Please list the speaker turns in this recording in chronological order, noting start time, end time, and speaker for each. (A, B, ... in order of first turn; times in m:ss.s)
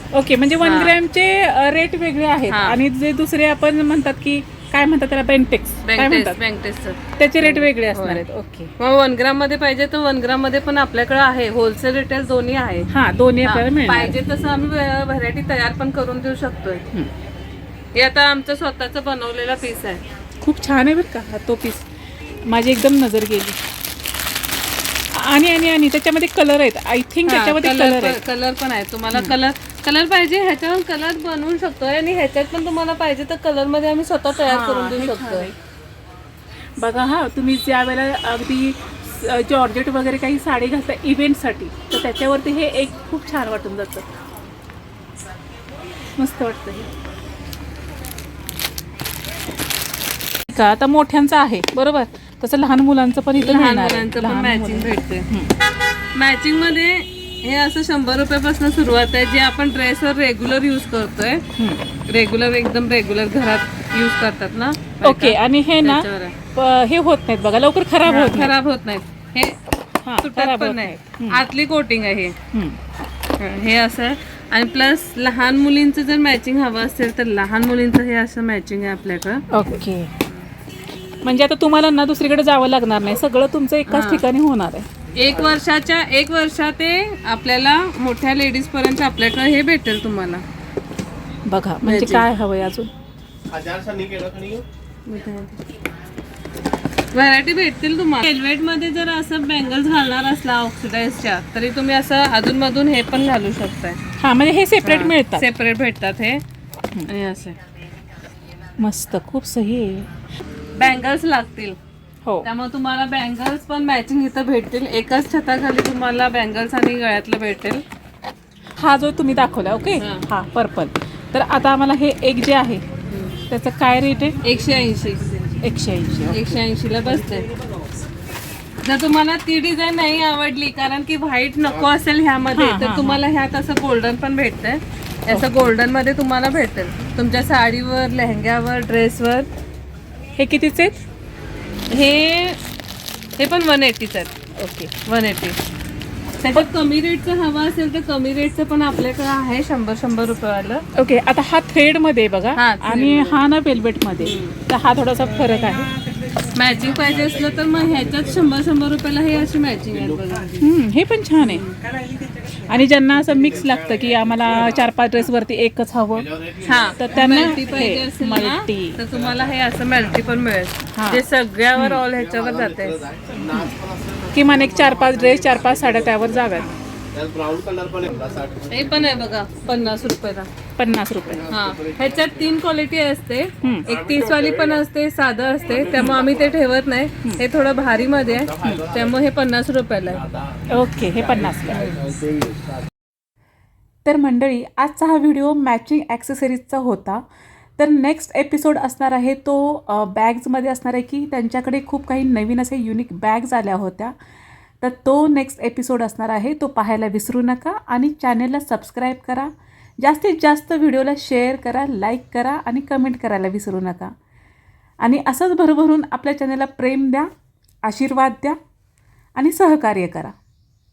0:00.1-0:06.4 A
0:00.6-0:01.0 B
0:02.5-0:02.8 B
0:05.9-0:08.2 B
0:07.2-0:08.7 A
0:08.8-0:12.9 B
0:12.9-0:14.2 A
0:13.4-0:16.8 B
0:18.0-0:20.0 B
0:20.4-0:21.9 A
0:22.5-0:23.6 A
0:25.1-0:28.2 A
0:27.3-0:35.5 B
0:34.5-0:35.6 A
0:36.8-0:44.1 A
0:46.2-0:46.9 A
0:50.5-0:55.5 A
0:53.4-0:55.3 B
0:56.2-1:01.4 B
1:01.6-1:01.8 A
1:02.1-1:06.4 B
1:05.0-1:08.5 A
1:08.0-1:09.6 B
1:10.0-1:11.4 A
1:10.2-1:12.4 B
1:12.5-1:12.8 A
1:13.4-1:19.5 B
1:19.5-1:20.1 A
1:21.2-1:24.9 A
1:23.9-1:24.2 B
1:25.2-1:30.4 B
1:31.5-1:32.9 A
1:31.8-1:32.3 B
1:33.5-1:34.6 C
1:35.1-1:35.6 B
1:37.1-1:44.0 B
1:44.2-1:45.5 A
1:44.8-1:46.4 B
1:47.1-1:47.6 B
1:48.8-1:50.1 A
1:50.8-1:51.8 B
1:52.4-1:57.8 B
1:58.8-2:02.8 A
2:00.0-2:00.2 B
2:03.1-2:03.4 B
2:03.5-2:04.4 A
2:04.4-2:05.3 B
2:05.6-2:06.6 A
2:06.3-2:07.5 B
2:08.8-2:19.5 B
2:12.5-2:13.2 A
2:15.3-2:15.7 A
2:20.4-2:21.0 A
2:21.9-2:22.6 B
2:23.4-2:24.3 B
2:24.6-2:24.9 A
2:25.1-2:25.6 B
2:26.4-2:30.9 B
2:31.0-2:35.9 A
2:32.6-2:33.4 B
2:34.2-2:34.6 B
2:36.5-2:40.6 B
2:36.8-2:38.4 C
2:40.6-2:41.7 A
2:41.4-2:41.7 B
2:42.7-2:46.3 A
2:43.3-2:44.9 C
2:46.3-2:47.6 C
2:46.6-2:53.0 B
2:46.8-2:49.0 A
2:49.1-2:49.6 C
2:50.9-2:52.1 A
2:52.2-2:56.6 C
2:53.4-2:53.7 A
2:54.3-2:56.8 A
2:57.1-2:59.2 C
2:58.7-3:00.5 B
3:00.8-3:01.5 A
3:01.3-3:02.5 C
3:01.5-3:10.2 B
3:03.9-3:04.8 C
3:05.7-3:06.6 C
3:06.0-3:06.2 A
3:08.3-3:09.1 C
3:08.6-3:08.9 A
3:10.3-3:12.6 C
3:10.7-3:12.0 A
3:11.7-3:12.1 B
3:14.0-3:17.2 A
3:17.8-3:24.1 A
3:24.8-3:34.1 A
3:35.0-3:37.3 A
3:37.8-3:38.6 A
3:39.4-3:40.4 A